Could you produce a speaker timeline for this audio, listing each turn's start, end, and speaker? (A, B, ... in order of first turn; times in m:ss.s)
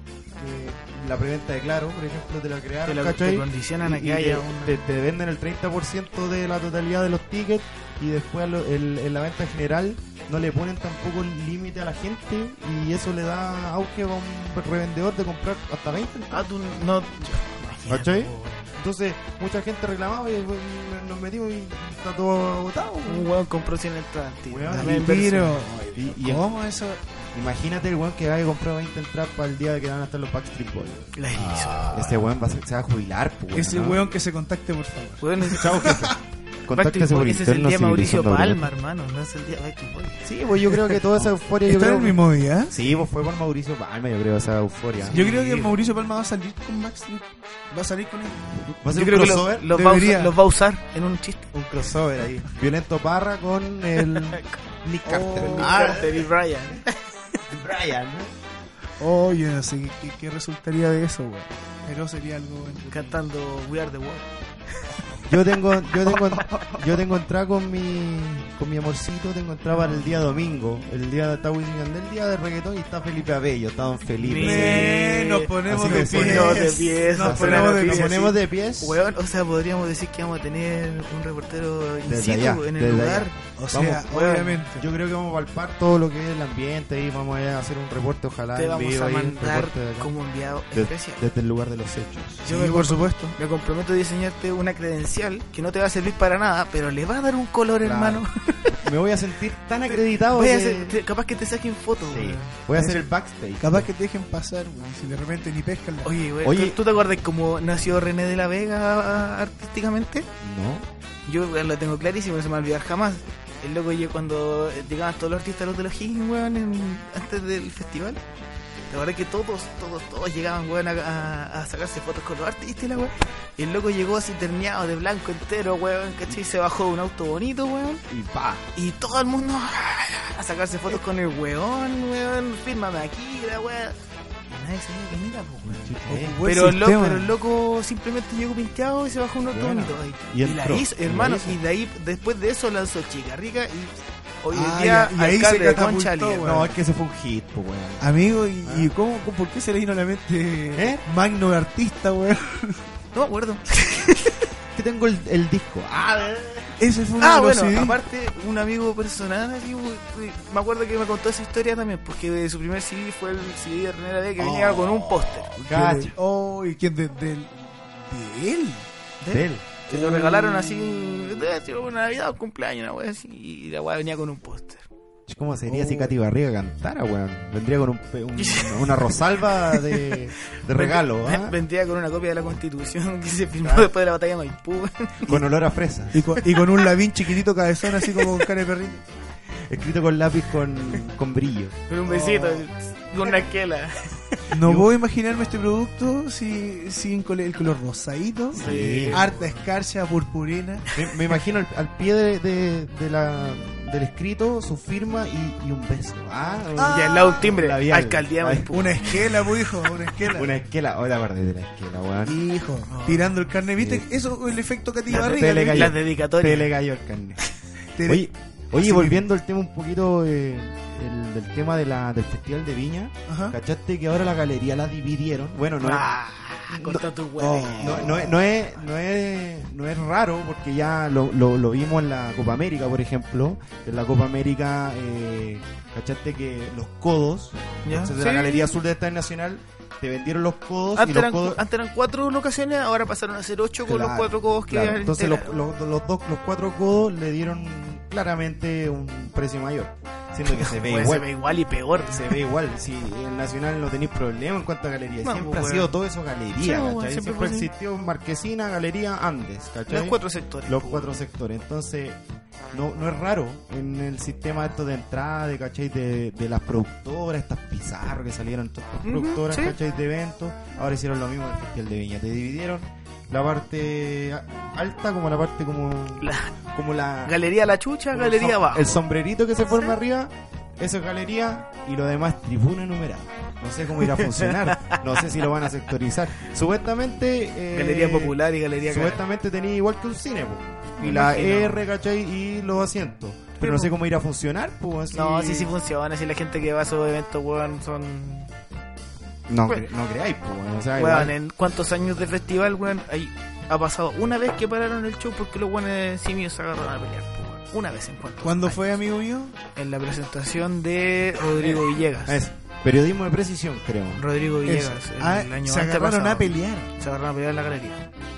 0:00.4-0:16.5 A
0:02.9-0:04.8 B
0:16.3-0:18.7 B
0:17.9-0:23.3 A
0:23.1-0:25.8 B
0:24.5-0:25.3 A
0:24.7-0:27.0 C
0:25.9-0:26.5 A
0:27.3-0:34.0 A
0:31.2-0:32.2 B
0:33.5-0:36.1 C
0:35.2-0:36.1 B
0:35.4-0:38.7 A
0:36.7-0:41.0 B
0:40.2-0:45.2 A
0:41.7-0:42.8 C
0:45.1-0:45.8 B
0:45.1-0:48.5 C
0:48.8-0:49.7 A
0:48.8-0:51.5 B
0:49.7-0:50.3 C
0:51.5-0:56.3 A
0:54.0-0:57.4 B
0:55.1-0:56.0 C
0:57.5-0:58.3 A
0:59.0-1:03.2 C
1:02.9-1:04.3 B
1:05.3-1:15.0 A
1:06.1-1:06.5 B
1:09.8-1:10.1 B
1:14.2-1:24.7 B
1:14.3-1:18.3 C
1:15.7-1:19.0 A
1:22.1-1:24.1 A
1:23.6-1:24.8 C
1:24.8-1:30.1 A
1:28.6-1:31.2 B
1:30.7-1:32.5 A
1:32.4-1:38.7 B
1:32.5-1:33.4 C
1:37.8-1:38.3 A
1:38.8-1:41.0 A
1:39.9-1:42.6 B
1:42.0-1:43.9 A
1:42.8-1:43.1 C
1:43.6-1:46.1 C
1:46.0-1:50.3 B
1:46.4-1:46.8 A
1:50.4-1:50.9 A
1:51.3-1:58.2 B
1:58.9-2:08.0 B
2:08.1-2:08.6 A
2:08.8-2:14.0 B
2:14.5-2:26.6 B
2:15.6-2:16.4 A
2:16.1-2:17.3 C
2:19.5-2:21.6 A
2:24.5-2:26.7 C
2:26.4-2:28.9 A
2:28.0-2:32.8 C
2:30.7-2:31.0 A
2:33.1-2:34.5 B
2:34.7-2:36.8 A
2:36.8-2:38.0 C
2:37.2-2:45.5 B
2:44.4-2:48.9 C
2:45.7-2:46.2 A
2:49.2-2:54.9 B
2:49.3-2:49.7 A
2:49.9-2:50.8 C
2:55.3-3:01.6 A
2:55.7-2:56.1 C
2:58.4-3:05.4 B
3:03.6-3:03.9 A
3:05.2-3:06.3 A
3:06.1-3:09.0 C
3:06.4-3:06.9 B
3:07.8-3:08.5 B
3:09.7-3:11.8 A
3:11.9-3:14.5 B
3:12.0-3:12.6 C
3:14.5-3:20.9 C
3:14.6-3:14.9 A
3:18.5-3:19.3 A
3:18.5-3:19.7 B
3:20.9-3:28.7 A
3:26.8-3:27.4 C
3:26.8-3:29.5 B
3:28.7-3:30.5 C
3:30.2-3:32.4 A
3:32.2-3:35.9 C
3:32.9-3:33.4 B
3:33.8-3:34.1 A
3:35.1-3:36.7 B
3:35.1-3:37.4 A
3:38.0-3:39.2 C
3:38.0-3:46.1 A
3:43.3-3:43.6 C
3:45.8-3:48.4 B
3:46.7-3:47.1 A
3:47.4-3:48.3 C
3:47.8-4:01.6 A
3:57.8-3:58.7 B
4:01.0-4:05.6 B
4:03.9-4:11.3 A
4:10.5-4:12.4 B
4:12.1-4:22.2 A
4:15.2-4:15.9 B
4:16.6-4:17.7 B
4:19.9-4:21.2 B
4:22.7-4:37.4 A
4:29.0-4:29.8 B
4:36.2-4:36.5 B
4:37.3-4:39.0 B
4:38.1-4:55.7 A
4:44.0-4:45.0 B
4:47.7-4:49.2 B
4:51.0-4:51.9 B
4:53.6-4:54.0 B
4:55.1-4:58.5 B
4:59.5-5:01.3 A
5:01.0-5:08.8 B
5:08.4-5:09.6 C
5:09.8-5:12.4 B
5:12.3-5:14.2 A
5:14.2-5:18.0 B
5:14.7-5:16.9 C